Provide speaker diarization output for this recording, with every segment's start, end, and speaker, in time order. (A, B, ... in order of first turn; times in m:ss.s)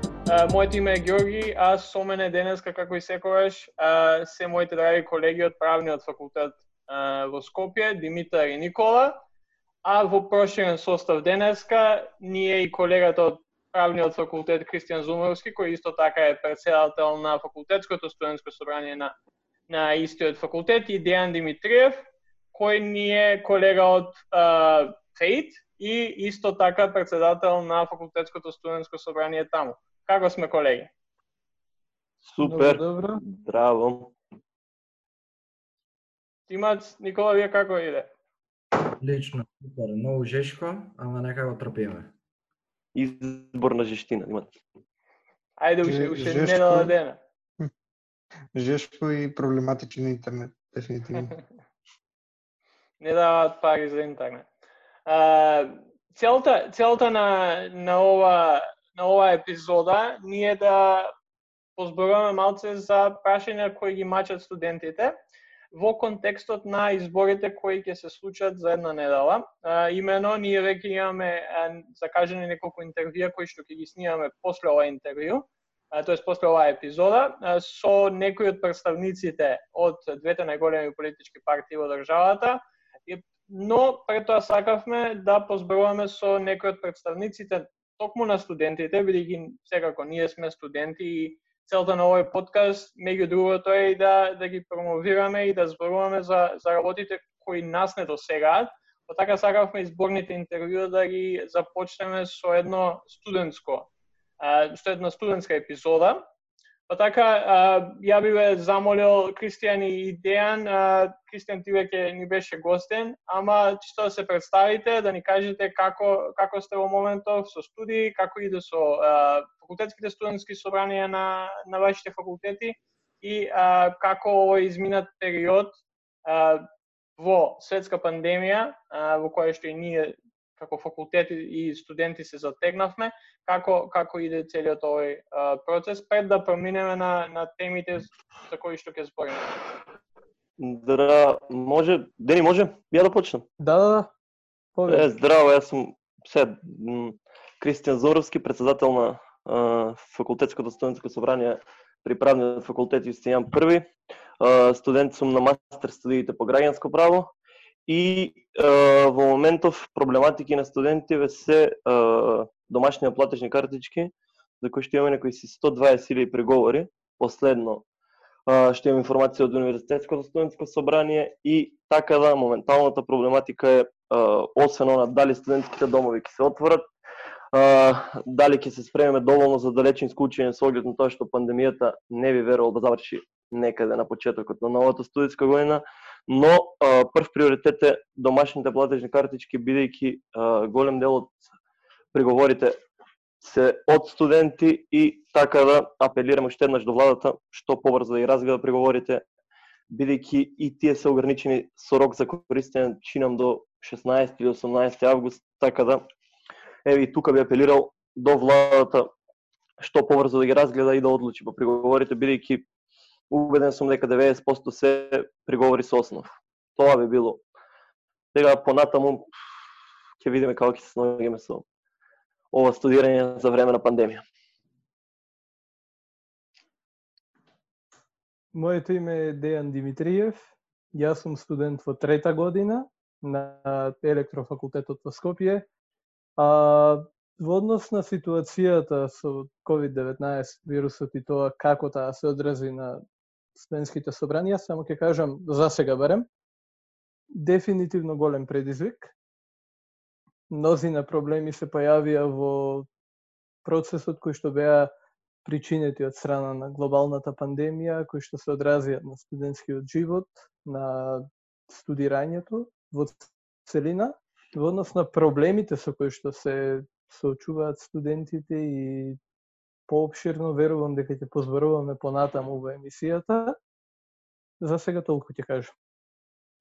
0:00.2-0:09.2 A
0:09.8-0:19.2 A
0:19.7-0:30.9 A
0:32.2-0:34.1 B
0:32.4-0:33.2 C
0:36.5-0:38.1 A
0:39.0-0:42.1 D
0:42.9-0:44.5 B
0:45.6-0:47.2 A
0:45.8-0:46.9 E
0:48.5-0:51.3 E
0:53.0-0:54.5 A
0:55.0-1:01.1 A
1:01.8-1:05.1 A
1:05.7-1:43.9 A
1:44.4-1:46.2 A
1:46.9-2:19.6 A
2:20.6-2:23.4 B
2:23.6-2:24.1 C
2:24.8-2:25.1 C
2:24.9-2:33.9 B
2:34.4-2:37.3 B
2:37.9-2:47.8 B
2:48.5-2:56.9 B
2:57.5-3:11.4 B
3:12.1-3:12.8 B
3:13.4-3:19.2 B
3:19.9-3:26.0 B
3:26.8-3:29.1 B
3:29.8-3:32.6 B
3:33.3-3:37.4 B
3:38.3-3:39.2 B
3:40.2-3:41.6 B
3:42.5-3:44.2 B
3:48.5-3:55.6 C
3:56.4-4:03.0 C
4:03.6-4:06.3 C
4:07.3-4:09.1 C
4:10.5-4:12.9 C
4:13.6-4:14.9 C
4:15.4-4:29.2 C
4:29.9-4:33.6 C
4:34.6-4:35.7 C